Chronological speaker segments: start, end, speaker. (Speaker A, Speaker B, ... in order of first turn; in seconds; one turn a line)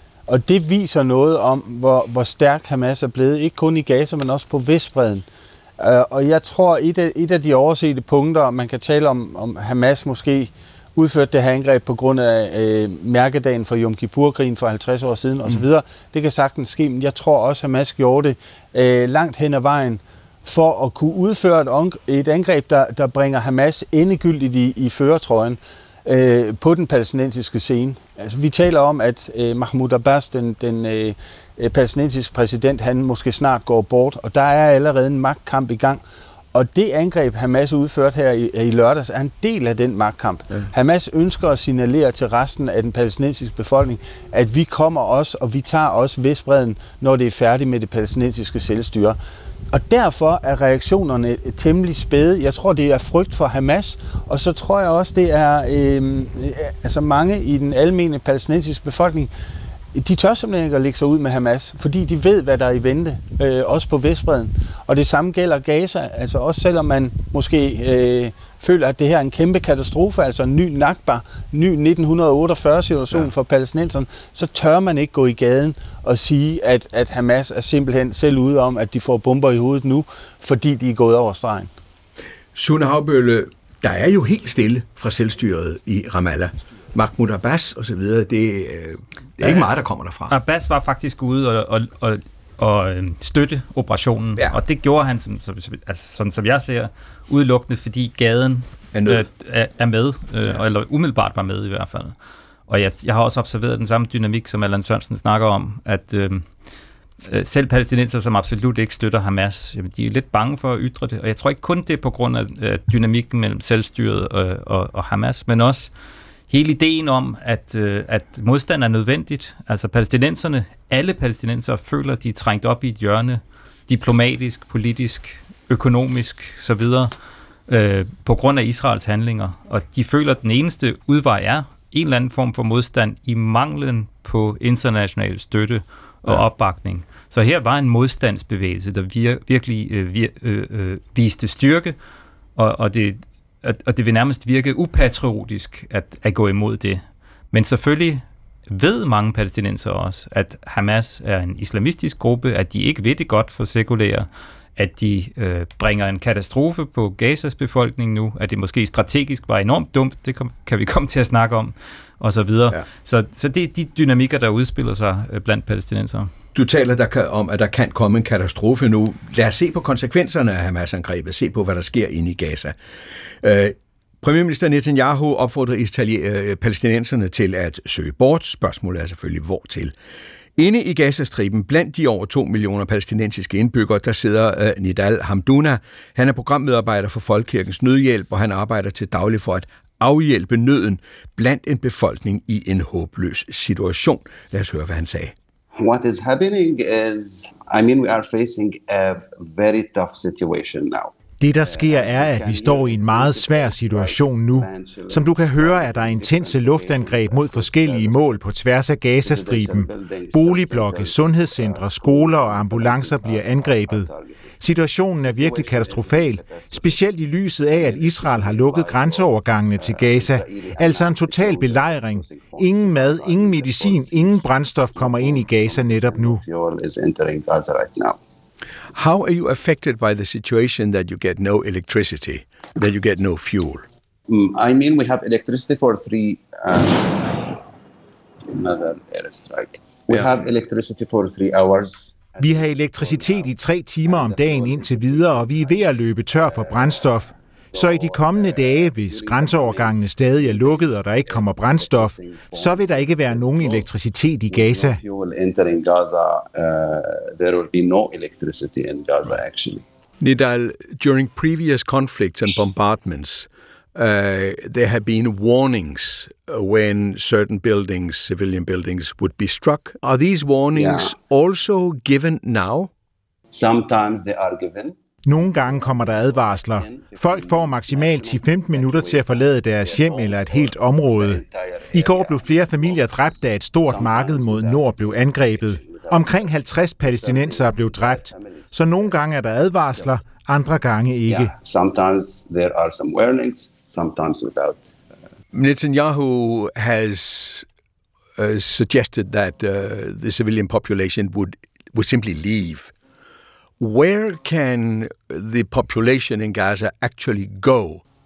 Speaker A: 0.3-5.2
Speaker A: 5.8-36.0
Speaker A: 36.5-49.2
Speaker A: 49.7-59.3
Speaker A: 59.9-81.7
Speaker B: 82.5-90.3
Speaker C: 89.4-89.7
Speaker C: 90.3-102.1
Speaker B: 98.9-99.2
Speaker C: 102.7-106.5
Speaker C: 107.2-115.9
Speaker C: 116.5-127.1
Speaker C: 127.7-141.9
Speaker C: 142.6-166.3
Speaker B: 166.5-172.7
Speaker B: 173.4-179.9
Speaker B: 180.6-195.3
Speaker D: 195.7-208.4
Speaker E: 201.4-226.4
Speaker D: 209.2-214.6
Speaker D: 215.1-228.2
Speaker B: 228.9-233.8
Speaker D: 234.3-237.6
Speaker D: 238.5-253.9
Speaker E: 242.4-255.0
Speaker D: 254.4-259.9
Speaker B: 260.2-272.9
Speaker D: 270.7-271.1
Speaker D: 273.5-289.2
Speaker E: 275.2-291.5
Speaker D: 289.9-290.2
Speaker D: 291.3-294.9
Speaker B: 295.5-297.6
Speaker B: 298.4-302.9
Speaker B: 303.8-308.0